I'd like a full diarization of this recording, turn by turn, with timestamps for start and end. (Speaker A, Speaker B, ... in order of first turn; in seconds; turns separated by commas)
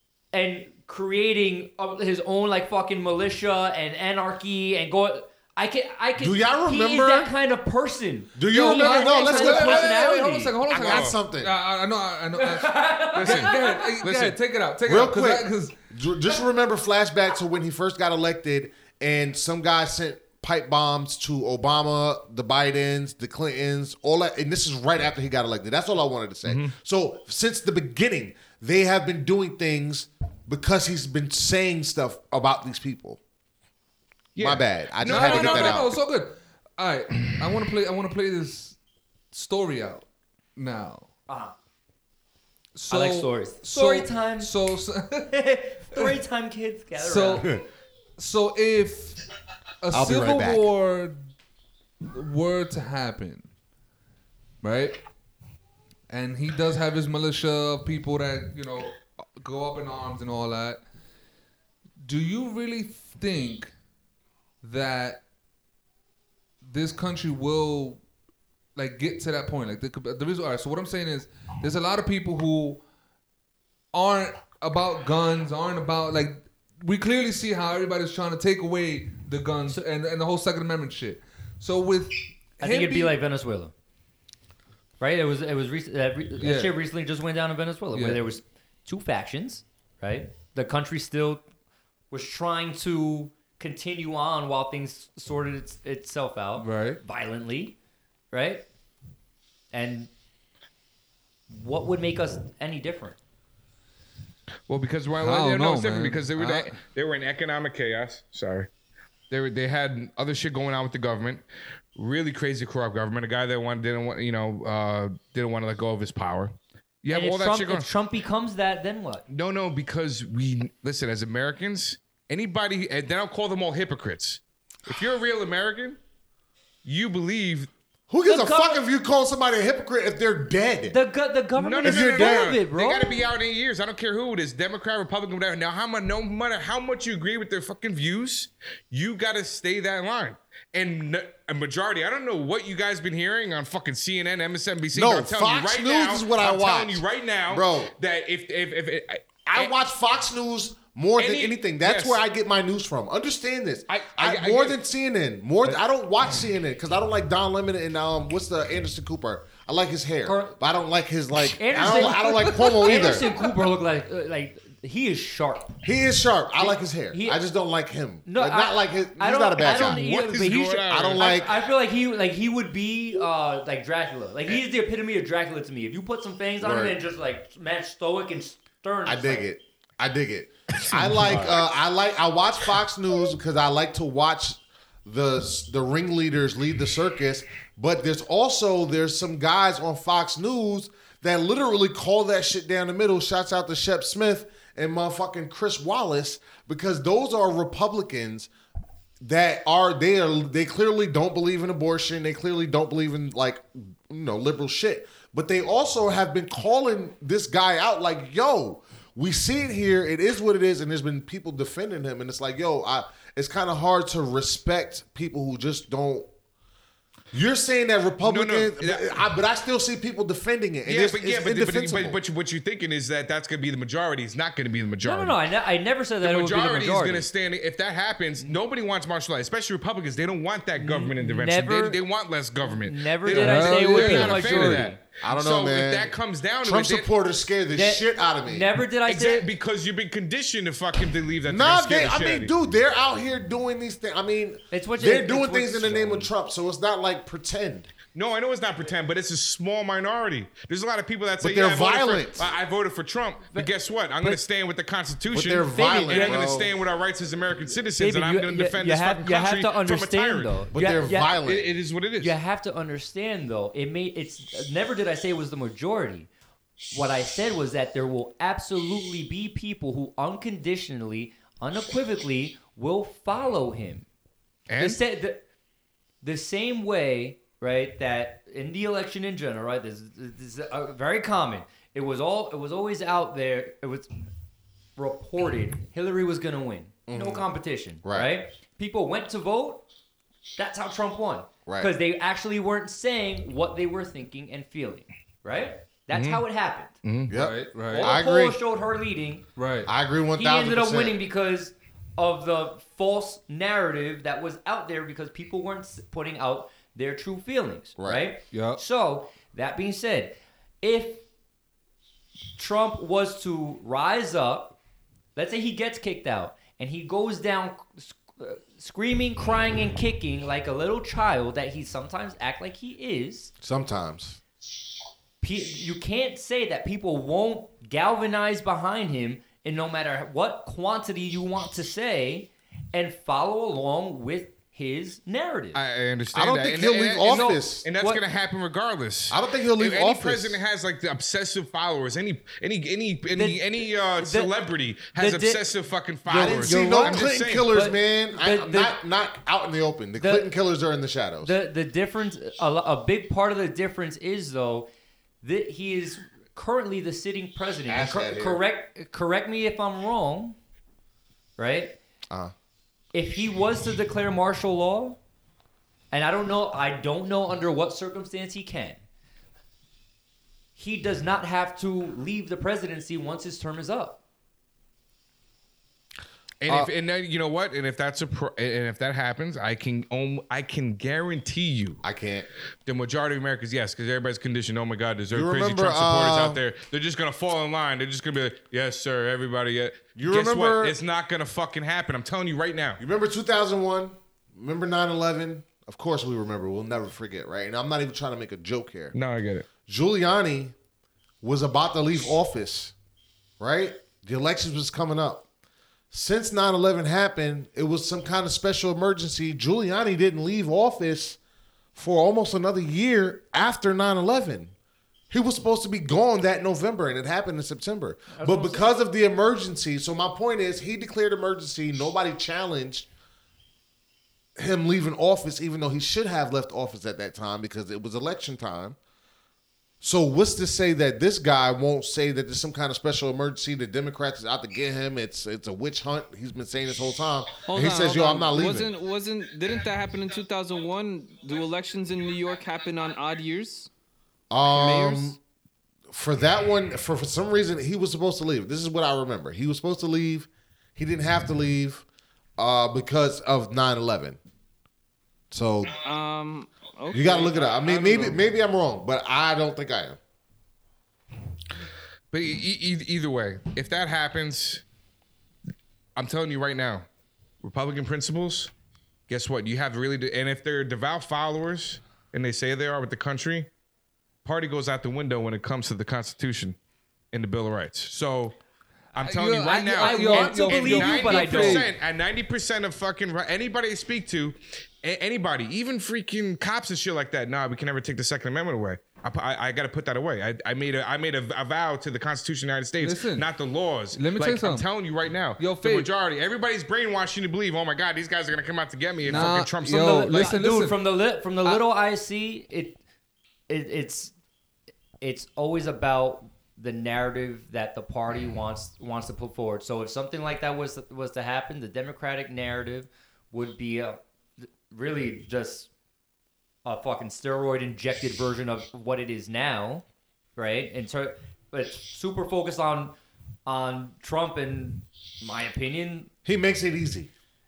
Speaker A: 0.3-10.6, Speaker B: 6.2-7.3, Speaker B: 8.3-10.0, Speaker C: 8.5-15.8, Speaker B: 10.7-11.5, Speaker D: 10.7-11.2, Speaker A: 12.4-14.0, Speaker D: 13.1-14.3, Speaker B: 14.8-33.2, Speaker D: 26.4-26.7, Speaker D: 34.4-35.9, Speaker B: 34.4-36.0, Speaker C: 35.0-38.8, Speaker C: 39.3-40.0, Speaker C: 40.5-41.1, Speaker A: 41.3-41.5, Speaker C: 42.7-45.4, Speaker A: 42.9-44.5, Speaker A: 45.3-47.5, Speaker C: 47.0-47.6, Speaker C: 48.2-49.2, Speaker C: 49.8-51.2, Speaker B: 49.9-50.7, Speaker C: 52.1-53.5, Speaker C: 54.6-55.0, Speaker C: 56.1-60.8, Speaker C: 62.0-63.7, Speaker C: 64.6-65.2, Speaker C: 66.6-68.0, Speaker C: 68.8-72.8, Speaker C: 73.9-83.2, Speaker A: 82.6-83.7, Speaker A: 85.0-91.4, Speaker C: 86.4-86.7, Speaker C: 87.9-88.2, Speaker A: 92.1-97.8, Speaker C: 96.6-97.0, Speaker A: 98.3-98.7, Speaker A: 99.7-100.1, Speaker A: 101.5-103.2, Speaker D: 104.7-108.7, Speaker C: 105.2-106.7, Speaker D: 109.3-111.4, Speaker D: 111.9-117.9, Speaker A: 117.1-119.2, Speaker D: 119.3-126.0, Speaker D: 126.8-127.7, Speaker B: 128.1-131.0, Speaker A: 128.2-128.8, Speaker A: 130.9-133.3, Speaker D: 131.6-149.7, Speaker B: 131.8-132.5, Speaker B: 144.9-147.9, Speaker B: 149.4-163.3, Speaker D: 151.2-152.2, Speaker D: 153.9-154.8, Speaker A: 160.2-160.6, Speaker A: 161.6-165.8, Speaker C: 162.4-162.9, Speaker B: 165.8-171.6, Speaker A: 166.6-167.4, Speaker A: 168.2-179.5, Speaker D: 169.7-171.4, Speaker B: 176.6-177.0, Speaker B: 179.0-198.5, Speaker D: 180.9-181.6, Speaker B: 199.2-216.3, Speaker B: 217.3-222.2, Speaker D: 218.2-219.2, Speaker D: 220.8-225.4, Speaker A: 225.0-227.3, Speaker D: 226.2-237.1, Speaker A: 230.8-232.0, Speaker A: 232.7-235.0, Speaker C: 233.3-234.8, Speaker B: 235.2-238.7, Speaker A: 237.7-239.5, Speaker D: 239.1-242.5, Speaker B: 241.4-247.9, Speaker A: 244.7-246.3, Speaker D: 248.1-262.4, Speaker B: 251.4-252.5, Speaker A: 253.5-254.4, Speaker B: 255.3-256.7, Speaker A: 255.7-256.6, Speaker A: 258.0-261.4, Speaker B: 260.7-261.7, Speaker A: 262.2-266.3, Speaker A: 266.9-274.1, Speaker D: 274.7-275.0, Speaker A: 274.8-275.4, Speaker A: 276.2-284.1, Speaker A: 284.9-289.8, Speaker B: 287.1-287.4, Speaker B: 288.0-288.3, Speaker A: 290.6-296.9, Speaker B: 291.6-291.9, Speaker D: 296.1-296.4, Speaker D: 297.0-297.3, Speaker B: 297.3-298.6, Speaker C: 297.3-298.1, Speaker A: 297.9-299.4, Speaker C: 299.6-299.9, Speaker B: 299.8-301.2, Speaker A: 300.4-311.2, Speaker B: 308.0-308.3, Speaker C: 308.5-308.8, Speaker A: 312.6-314.8, Speaker A: 315.4-323.5, Speaker B: 323.6-324.4, Speaker A: 325.4-335.8, Speaker D: 335.7-347.7, Speaker B: 336.3-337.8, Speaker A: 337.2-338.2, Speaker B: 339.3-340.6, Speaker A: 343.3-344.5, Speaker A: 345.1-345.6, Speaker A: 346.2-349.0, Speaker B: 346.3-351.5, Speaker A: 350.2-350.5, Speaker A: 351.4-354.9, Speaker A: 355.4-360.6, Speaker B: 357.9-358.6, Speaker A: 361.6-362.0, Speaker A: 363.1-365.2, Speaker A: 366.1-369.0, Speaker A: 370.8-374.2, Speaker D: 376.6-382.0, Speaker B: 382.0-382.5, Speaker D: 382.8-393.0, Speaker B: 385.3-386.6, Speaker B: 390.1-391.0, Speaker B: 393.0-399.1, Speaker D: 399.1-399.7, Speaker B: 399.8-400.7, Speaker B: 401.4-402.9, Speaker B: 403.6-405.5, Speaker B: 406.1-411.4, Speaker B: 411.9-414.7, Speaker B: 415.3-423.1, Speaker A: 418.3-418.9, Speaker B: 424.6-429.0, Speaker B: 430.0-438.9, Speaker E: 437.6-443.9, Speaker B: 444.5-445.4, Speaker E: 444.7-445.4, Speaker B: 446.1-452.0, Speaker B: 452.6-454.4, Speaker B: 455.5-456.0, Speaker E: 455.9-458.4, Speaker B: 457.1-460.2, Speaker D: 462.3-464.8, Speaker D: 466.1-467.1, Speaker D: 467.6-468.7, Speaker D: 469.3-473.7, Speaker D: 474.4-476.8, Speaker D: 477.3-478.6, Speaker D: 479.1-500.5, Speaker C: 479.2-481.9, Speaker A: 479.9-481.9, Speaker C: 493.0-493.5, Speaker C: 494.1-494.9, Speaker C: 495.6-496.1, Speaker C: 499.2-501.0, Speaker A: 499.3-503.0, Speaker A: 503.7-504.3, Speaker A: 505.2-515.9, Speaker A: 516.8-520.0, Speaker A: 520.5-523.1, Speaker A: 523.6-526.3, Speaker B: 526.5-527.3